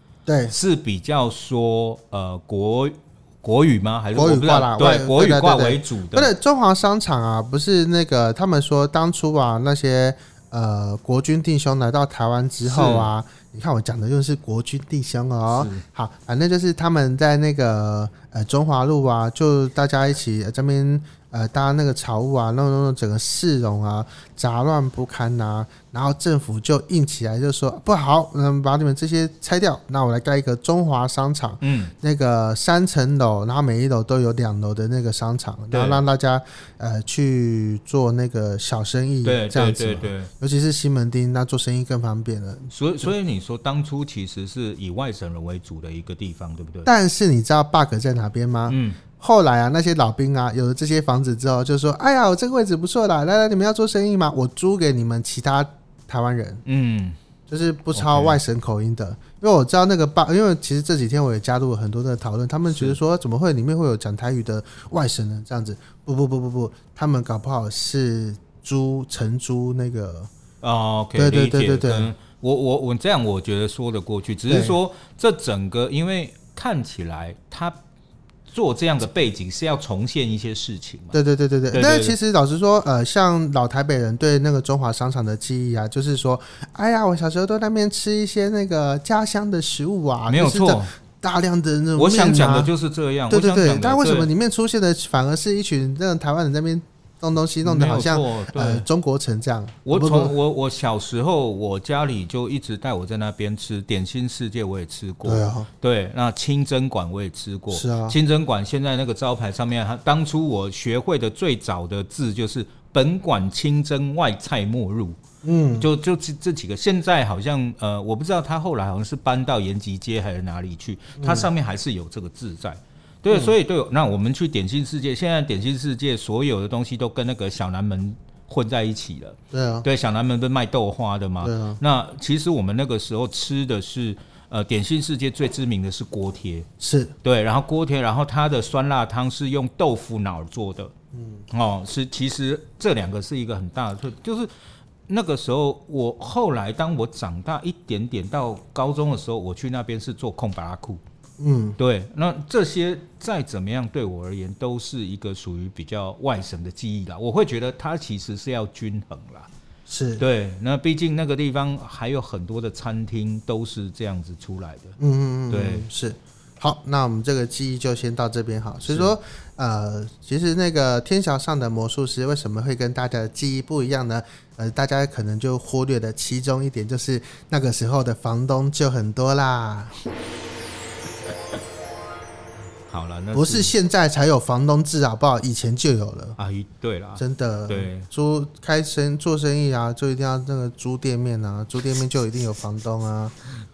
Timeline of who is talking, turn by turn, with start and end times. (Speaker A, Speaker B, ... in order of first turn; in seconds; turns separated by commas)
Speaker A: 0.2-0.5, Speaker B: 0.5-6.3, Speaker A: 4.1-43.1, Speaker B: 12.6-13.1, Speaker B: 15.5-15.8, Speaker B: 31.6-31.9, Speaker B: 35.7-36.0, Speaker B: 39.2-40.3, Speaker B: 42.7-46.9, Speaker A: 46.8-56.6, Speaker B: 48.7-49.0, Speaker B: 56.6-57.2, Speaker A: 57.5-70.3, Speaker B: 57.9-58.4, Speaker B: 62.7-63.0, Speaker B: 70.6-77.8, Speaker A: 71.1-72.1, Speaker A: 74.5-74.8, Speaker B: 78.5-81.2, Speaker A: 81.1-92.7, Speaker B: 81.7-82.2, Speaker B: 90.3-90.9, Speaker B: 92.0-94.3, Speaker A: 93.3-100.3, Speaker B: 97.6-98.8, Speaker B: 99.8-115.2, Speaker A: 105.2-105.7, Speaker A: 107.7-108.2, Speaker A: 115.4-115.9, Speaker B: 115.8-136.7, Speaker A: 121.2-121.5, Speaker A: 123.3-123.5, Speaker A: 129.5-129.8, Speaker A: 131.4-131.8, Speaker A: 136.8-137.1, Speaker B: 137.2-140.9, Speaker A: 141.1-141.4, Speaker B: 141.5-144.5, Speaker B: 145.1-151.0, Speaker A: 151.4-151.8, Speaker B: 151.8-159.5, Speaker A: 159.9-160.2, Speaker B: 160.2-165.0, Speaker A: 165.0-180.0, Speaker B: 165.5-165.9, Speaker B: 168.8-169.2, Speaker B: 182.9-183.7, Speaker A: 183.3-186.4, Speaker B: 186.4-188.1, Speaker A: 187.2-193.3